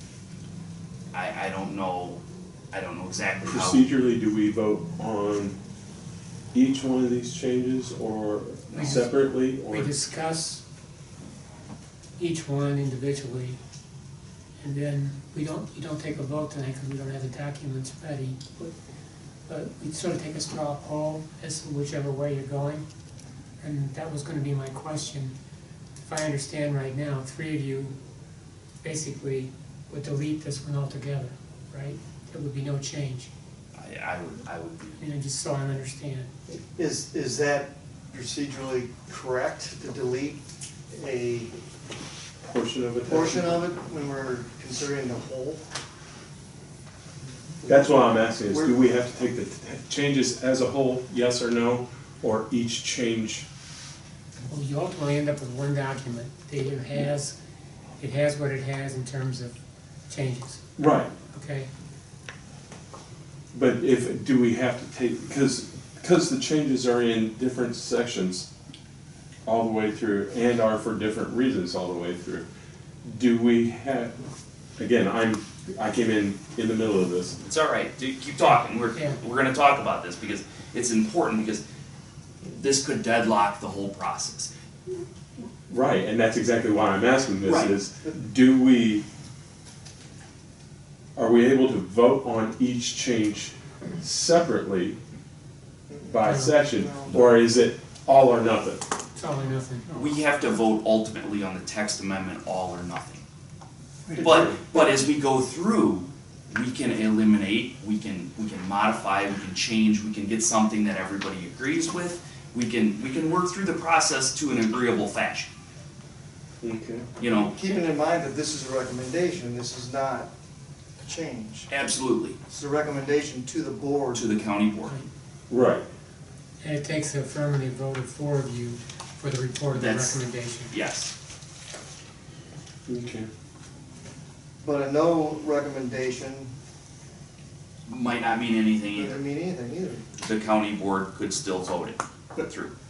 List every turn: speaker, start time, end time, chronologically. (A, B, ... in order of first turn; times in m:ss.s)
0:01.1-0:03.8 A
0:03.4-0:05.6 B
0:06.5-0:09.9 B
0:08.7-0:10.6 C
0:12.2-0:13.6 C
0:14.6-0:18.7 C
0:19.5-0:22.8 C
0:23.6-0:25.3 C
0:26.0-0:27.9 C
0:28.8-0:33.3 C
0:33.7-0:35.0 A
0:35.0-0:36.3 C
0:36.5-0:41.5 D
0:42.4-0:43.6 B
0:43.1-0:45.6 D
0:47.6-0:47.9 D
0:47.6-0:53.4 B
0:48.5-0:48.8 D
0:54.5-0:57.4 C
0:58.0-0:59.5 C
1:00.1-1:00.6 C
1:00.8-1:01.1 B
1:01.3-1:01.7 C
1:03.5-1:08.5 B
1:09.4-1:12.4 B
1:13.0-1:14.1 B
1:14.8-1:17.4 B
1:17.4-1:21.6 A
1:22.4-1:24.5 A
1:25.7-1:29.0 B
1:27.4-1:27.7 A
1:31.2-1:35.0 B
1:35.9-1:37.2 D
1:36.1-1:38.8 B
1:36.2-1:36.6 C
1:39.1-1:40.1 C
1:40.0-1:43.2 A
1:44.2-1:44.6 B
1:44.2-1:55.5 A
1:56.6-1:57.1 B
1:57.2-1:57.5 A
1:57.3-2:00.3 D
2:01.0-2:01.7 D
2:01.7-2:02.4 A
2:02.5-2:04.3 D
2:04.1-2:04.9 A
2:05.5-2:05.8 B
2:06.6-2:10.7 C
2:09.7-2:11.1 A
2:12.9-2:13.3 B
2:14.6-2:16.5 D
2:17.8-2:19.2 A
2:18.9-2:20.0 D
2:20.2-2:22.7 A